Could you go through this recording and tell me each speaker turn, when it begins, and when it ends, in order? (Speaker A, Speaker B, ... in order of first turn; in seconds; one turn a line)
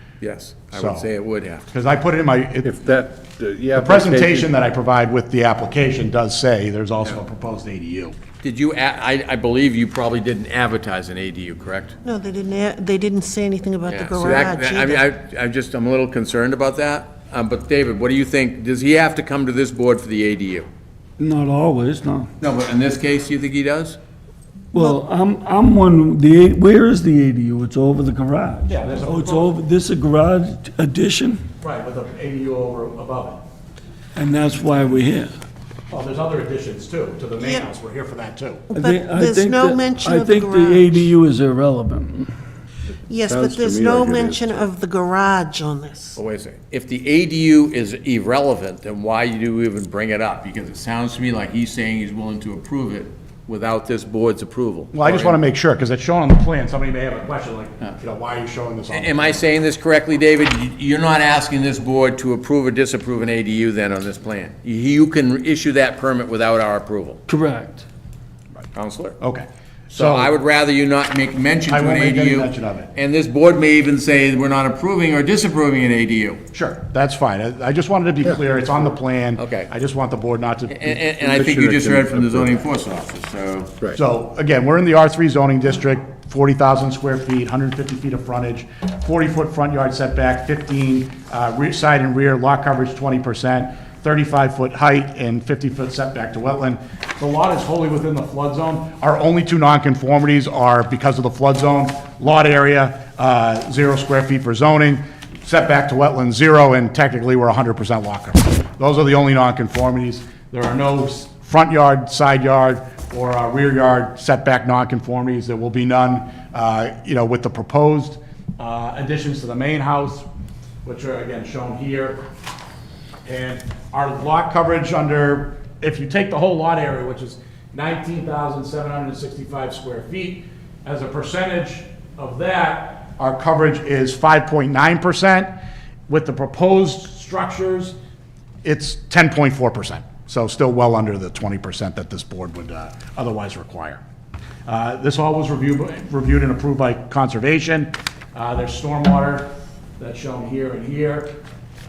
Speaker A: 0.2-1.7
Speaker B: 0.7-1.1
Speaker B: 1.7-2.7
Speaker C: 2.6-4.5
Speaker B: 3.7-8.2
Speaker A: 8.4-12.0
Speaker D: 12.0-15.1
Speaker A: 13.8-20.7
Speaker E: 21.2-22.3
Speaker A: 22.4-24.0
Speaker E: 24.7-31.4
Speaker B: 28.7-29.5
Speaker B: 31.6-33.4
Speaker E: 34.2-35.3
Speaker B: 35.9-38.6
Speaker D: 37.4-37.7
Speaker E: 38.7-42.3
Speaker D: 38.7-41.1
Speaker D: 43.1-46.2
Speaker C: 43.2-44.7
Speaker A: 46.1-55.4
Speaker B: 54.9-59.4
Speaker A: 58.9-67.2
Speaker E: 67.3-67.8
Speaker A: 68.8-69.2
Speaker B: 69.2-70.3
Speaker A: 69.9-76.4
Speaker B: 71.7-72.9
Speaker B: 76.5-81.0
Speaker A: 79.4-79.7
Speaker A: 80.7-83.7
Speaker C: 81.2-82.6
Speaker B: 83.9-120.3
Speaker B: 120.8-122.2
Speaker B: 123.2-135.6
Speaker B: 136.1-137.9
Speaker B: 138.6-144.0
Speaker B: 144.7-151.4